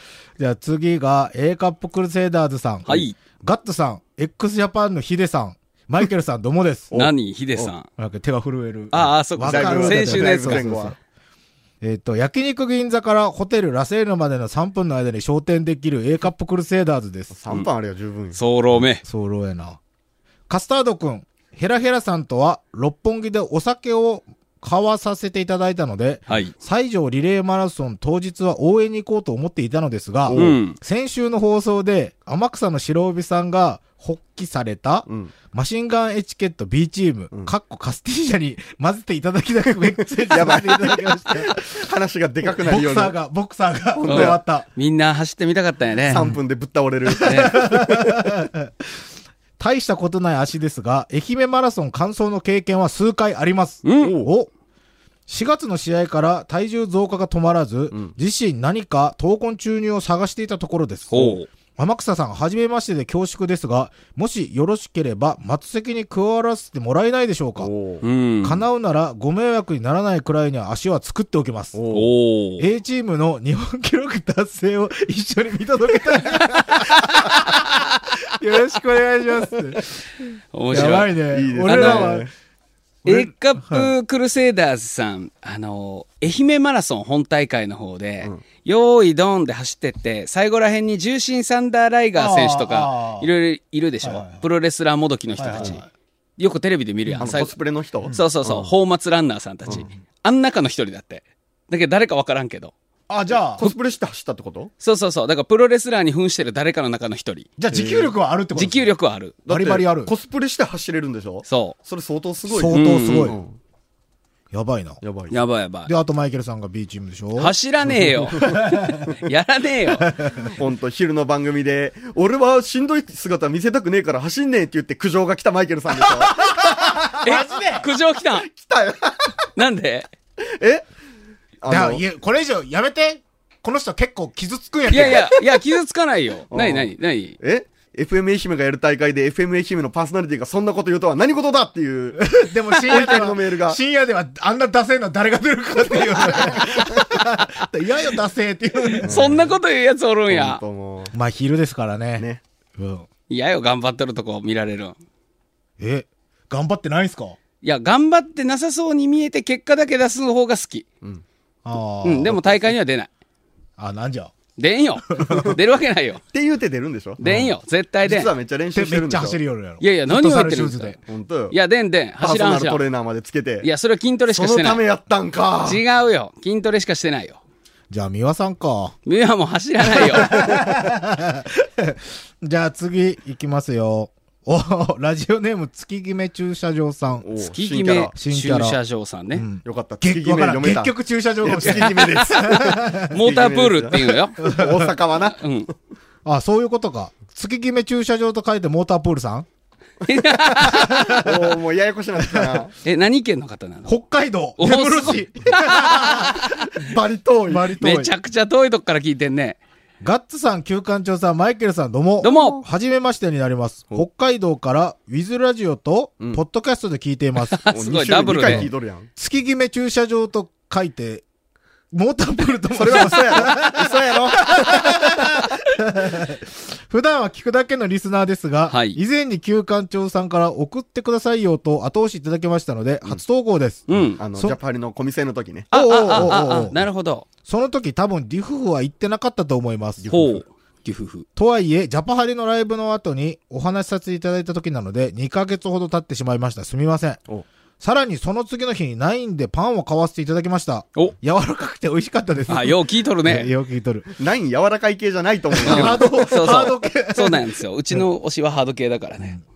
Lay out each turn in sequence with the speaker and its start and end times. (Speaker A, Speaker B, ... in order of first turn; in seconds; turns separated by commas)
Speaker A: 0.4-6.9, Speaker B: 2.9-3.2, Speaker C: 6.9-7.7, Speaker B: 6.9-7.9, Speaker A: 8.0-11.0, Speaker B: 8.9-10.8, Speaker C: 9.4-10.9, Speaker A: 11.8-17.3, Speaker C: 17.3-18.4, Speaker B: 18.3-19.0, Speaker A: 19.0-19.8, Speaker A: 20.5-41.9, Speaker C: 30.3-30.6, Speaker B: 30.3-30.8, Speaker C: 35.1-35.3, Speaker C: 40.0-43.1, Speaker A: 42.5-44.7, Speaker C: 44.0-44.4, Speaker B: 44.0-46.3, Speaker C: 46.0-48.1, Speaker A: 46.1-46.4, Speaker A: 47.2-49.0, Speaker B: 47.2-47.6, Speaker A: 49.6-54.5, Speaker B: 53.8-54.1, Speaker C: 54.0-54.3, Speaker A: 55.3-67.7, Speaker B: 61.1-61.5, Speaker C: 67.6-68.0, Speaker B: 68.0-68.6, Speaker A: 68.4-71.8, Speaker C: 71.7-72.1, Speaker B: 71.9-72.7, Speaker A: 72.6-82.3, Speaker B: 80.5-81.1, Speaker C: 80.8-82.3, Speaker B: 81.7-82.2, Speaker A: 83.0-83.9, Speaker B: 83.0-95.8, Speaker A: 92.2-93.3, Speaker A: 94.0-94.4, Speaker A: 95.3-95.9, Speaker B: 96.4-97.6, Speaker C: 97.2-98.7, Speaker B: 98.1-102.7, Speaker A: 103.1-103.6, Speaker C: 103.6-104.7, Speaker B: 104.8-107.5, Speaker A: 107.6-108.9, Speaker C: 107.7-108.1, Speaker B: 108.5-109.4, Speaker C: 109.5-113.5, Speaker A: 109.5-110.1, Speaker B: 111.5-111.8, Speaker A: 112.5-113.4, Speaker B: 112.7-113.4, Speaker A: 114.5-115.0, Speaker C: 115.0-115.4, Speaker B: 115.3-115.9, Speaker A: 115.8-117.5, Speaker B: 117.4-120.1, Speaker C: 118.2-119.1, Speaker A: 118.5-119.1, Speaker A: 120.0-120.5, Speaker C: 120.4-126.6, Speaker A: 126.0-127.9, Speaker B: 127.2-128.5, Speaker C: 128.4-129.4, Speaker B: 129.6-130.1, Speaker C: 130.4-130.8, Speaker C: 131.6-132.0, Speaker A: 131.7-135.4, Speaker B: 134.9-137.4, Speaker C: 136.5-136.9, Speaker C: 137.4-143.8, Speaker A: 142.2-149.4, Speaker C: 146.0-147.2, Speaker B: 148.9-150.6, Speaker C: 149.0-149.5, Speaker C: 150.3-151.1, Speaker A: 151.1-152.3, Speaker A: 152.8-153.1, Speaker B: 153.3-155.0, Speaker A: 155.8-157.4, Speaker B: 157.6-160.8, Speaker A: 161.7-162.5, Speaker B: 162.0-163.1, Speaker A: 163.8-164.3, Speaker B: 164.6-166.2, Speaker A: 165.2-165.5, Speaker C: 165.2-165.5, Speaker C: 166.3-167.3, Speaker B: 167.2-168.3, Speaker A: 167.2-167.5, Speaker C: 168.0-169.4, Speaker A: 168.7-171.0, Speaker B: 169.8-171.0, Speaker C: 171.1-171.5, Speaker B: 171.5-172.8, Speaker C: 172.2-173.7, Speaker B: 173.6-174.8, Speaker C: 174.3-175.8, Speaker B: 175.6-177.4, Speaker A: 177.9-179.0, Speaker B: 179.1-180.5, Speaker A: 179.8-187.2, Speaker C: 187.2-188.1, Speaker B: 187.5-189.5, Speaker A: 188.2-188.8, Speaker A: 189.3-193.2, Speaker C: 189.7-190.9, Speaker C: 191.4-195.4, Speaker B: 191.5-194.5, Speaker A: 194.4-194.9, Speaker B: 195.4-195.7, Speaker A: 196.2-199.5, Speaker B: 200.0-201.2, Speaker A: 200.5-201.6, Speaker C: 201.1-202.7, Speaker A: 202.2-202.6, Speaker B: 202.8-203.9, Speaker A: 203.8-206.9, Speaker B: 204.6-206.5, Speaker C: 206.8-207.7, Speaker A: 207.4-208.1, Speaker B: 207.8-209.6, Speaker A: 210.0-217.6, Speaker B: 212.2-212.6, Speaker B: 217.5-218.7, Speaker C: 217.7-219.1, Speaker A: 218.4-221.2, Speaker A: 221.9-234.6, Speaker C: 222.7-225.1, Speaker B: 228.7-229.0, Speaker B: 233.9-234.2, Speaker C: 234.2-236.4, Speaker A: 235.7-236.8, Speaker B: 235.7-237.3, Speaker A: 237.5-240.1, Speaker C: 240.0-240.4, Speaker B: 240.1-241.2, Speaker A: 241.3-247.2, Speaker A: 247.8-254.1, Speaker B: 252.5-253.5, Speaker C: 254.2-256.5, Speaker A: 255.6-258.0, Speaker B: 255.6-259.4